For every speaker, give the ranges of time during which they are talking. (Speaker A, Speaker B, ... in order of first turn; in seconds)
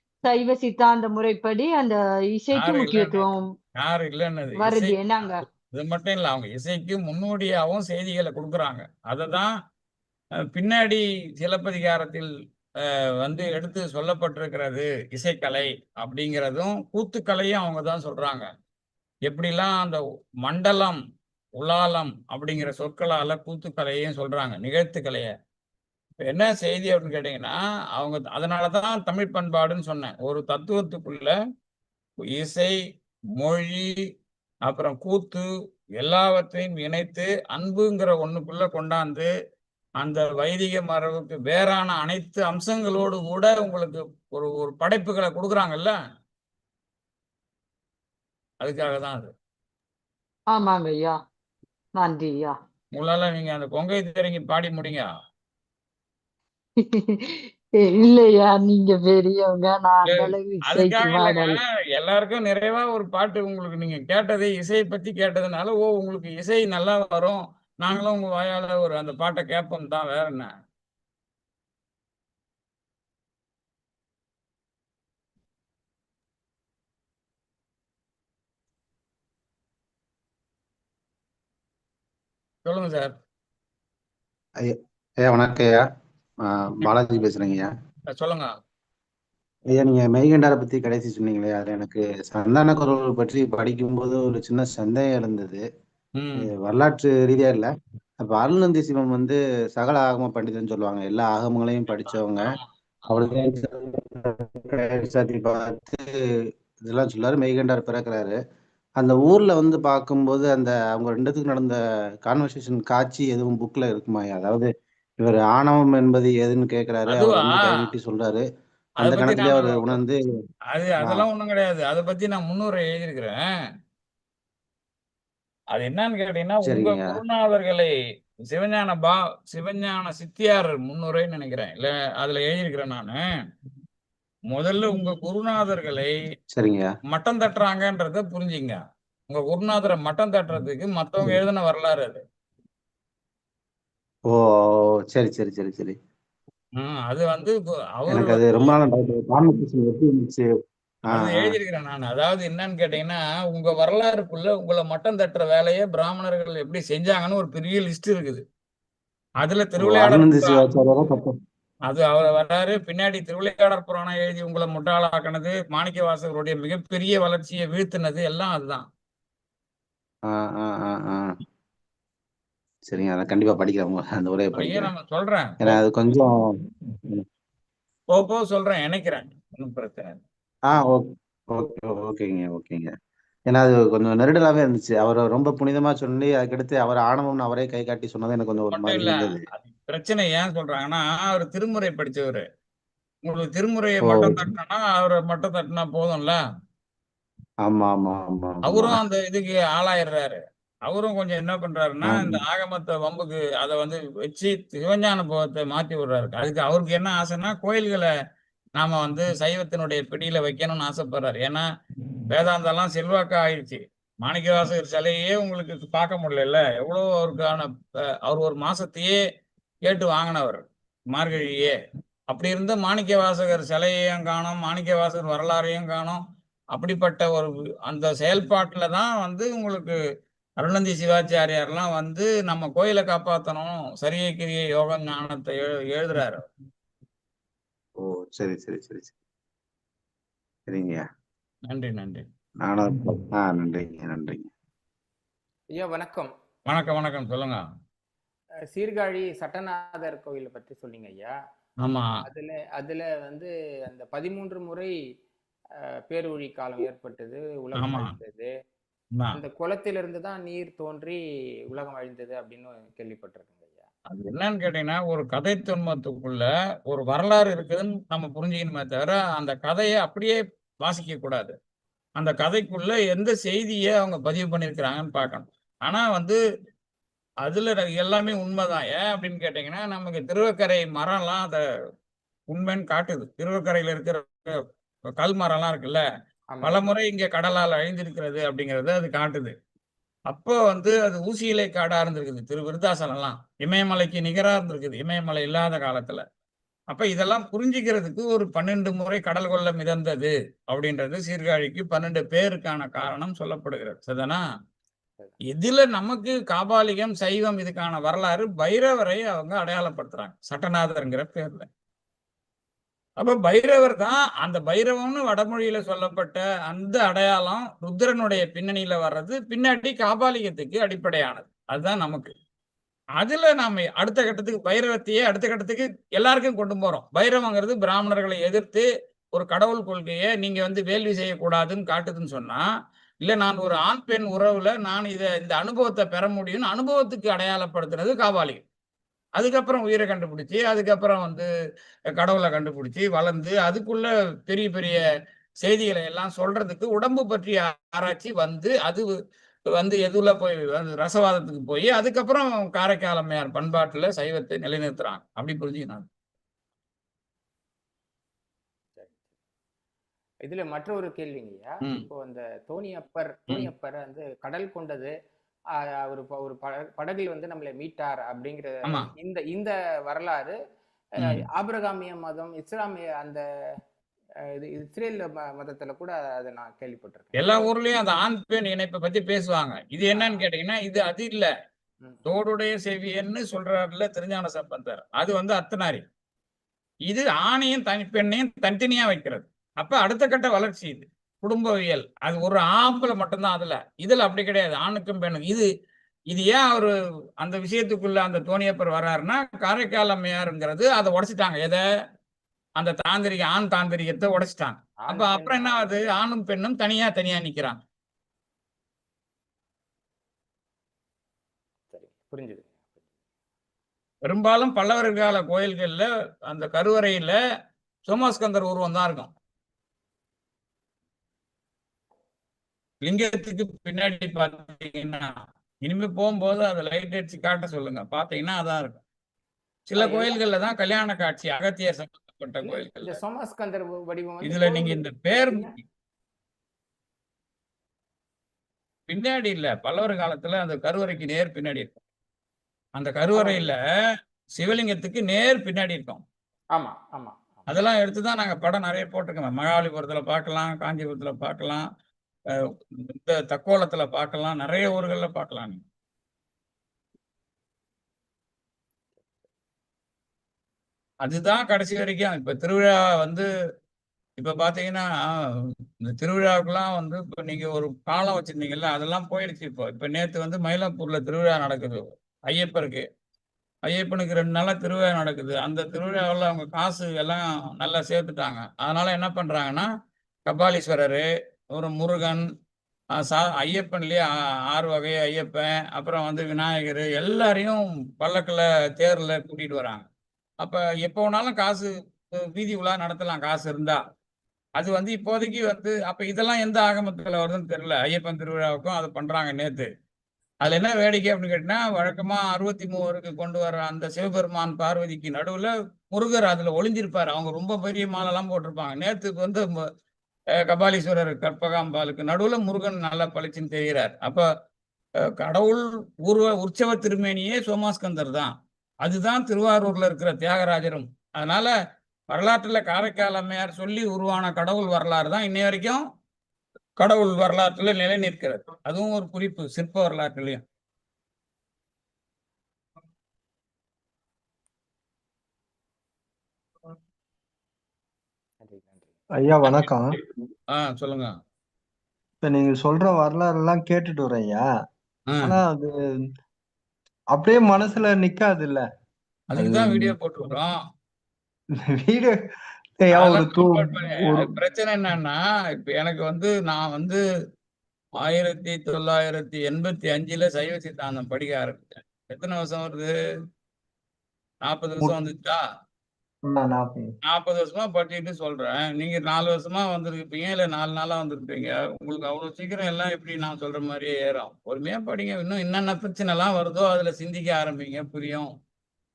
Speaker A: 0.2-3.5, 4.5-5.4, 50.5-51.2, 52.0-52.6, 56.8-61.6
Speaker B: 2.5-9.5, 10.5-12.3, 13.2-18.5, 19.3-21.0, 21.6-25.3, 26.2-31.3, 32.2-32.8, 33.4-33.9, 34.6-35.5, 36.0-39.3, 40.0-46.0, 48.6-49.3, 53.0-55.1, 60.1-70.5, 82.7-83.2, 88.1-88.5, 96.2-96.5, 102.0-103.3, 117.1-117.6, 119.0-120.0, 120.7-123.4, 125.7-127.9, 128.5-133.2, 134.5-136.1, 137.1-138.8, 139.3-142.2, 146.8-148.8, 151.1-158.4, 159.4-160.6, 161.9-168.9, 174.6-175.8, 178.1-180.2, 188.7-192.4, 193.2-196.4, 198.6-208.1, 208.8-211.7, 212.3-217.7, 218.2-219.2, 219.8-221.8, 222.3-226.2, 226.7-229.9, 230.6-236.4, 241.7-242.2, 246.7-247.6, 251.8-252.2, 257.8-258.1, 264.1-271.6, 272.2-276.4, 277.4-281.6, 282.5-284.5, 285.2-286.0, 286.6-289.5, 290.3-296.2, 296.9-304.4, 305.5-311.7, 313.2-322.3, 323.2-332.6, 333.2-338.6, 339.4-341.5, 342.1-345.0, 345.6-349.1, 349.8-356.1, 377.4-381.5, 382.3-386.0, 387.1-395.7, 396.3-401.8, 402.8-407.8, 414.2-417.4, 418.1-419.3, 423.0-425.3, 425.9-429.0, 429.9-433.2, 434.4-435.7, 439.1-442.0, 443.0-443.8, 444.6-446.2, 447.7-451.9, 453.1-455.8, 461.2-463.5, 464.4-465.3, 466.1-473.1, 473.9-479.9, 480.5-481.2, 481.8-482.4, 483.2-490.1, 490.6-494.0, 494.8-499.9, 500.6-509.7, 510.7-514.5, 515.4-518.5, 519.0-521.7, 522.3-526.0, 527.0-530.6, 540.7-541.3, 545.3-545.6, 549.5-550.8, 553.2-557.2, 558.3-563.1, 564.6-565.6, 567.3-578.5
Speaker C: 84.6-85.8, 86.5-87.7, 89.7-95.6, 96.4-97.7, 98.2-102.5, 103.1-106.0, 106.8-108.4, 109.0-114.7, 115.2-118.5, 119.0-120.2, 126.7-127.1, 136.5-136.9, 145.1-146.0, 148.1-150.5, 151.1-151.6, 159.8-161.3, 170.3-171.3, 172.9-174.9, 175.6-176.4, 180.7-182.9, 183.5-189.4, 194.0-194.4, 197.7-199.0, 202.1-202.4, 238.0-239.1, 240.7-241.0, 242.7-244.5
Speaker D: 245.7-246.3, 248.7-251.3, 252.2-254.9, 256.1-258.5, 259.3-261.2, 261.7-263.9, 286.5-286.8, 360.5-365.1, 366.0-370.6, 371.2-373.4, 374.6-377.6, 380.1-380.4, 405.0-405.9, 411.9-412.8, 429.9-430.4, 432.6-435.7, 443.3-443.7, 446.8-447.7, 538.6-539.1
Speaker E: 539.4-540.2, 542.4-544.6, 545.4-545.9, 547.3-548.8, 549.6-550.1, 551.9-552.4, 553.0-554.5, 566.5-567.1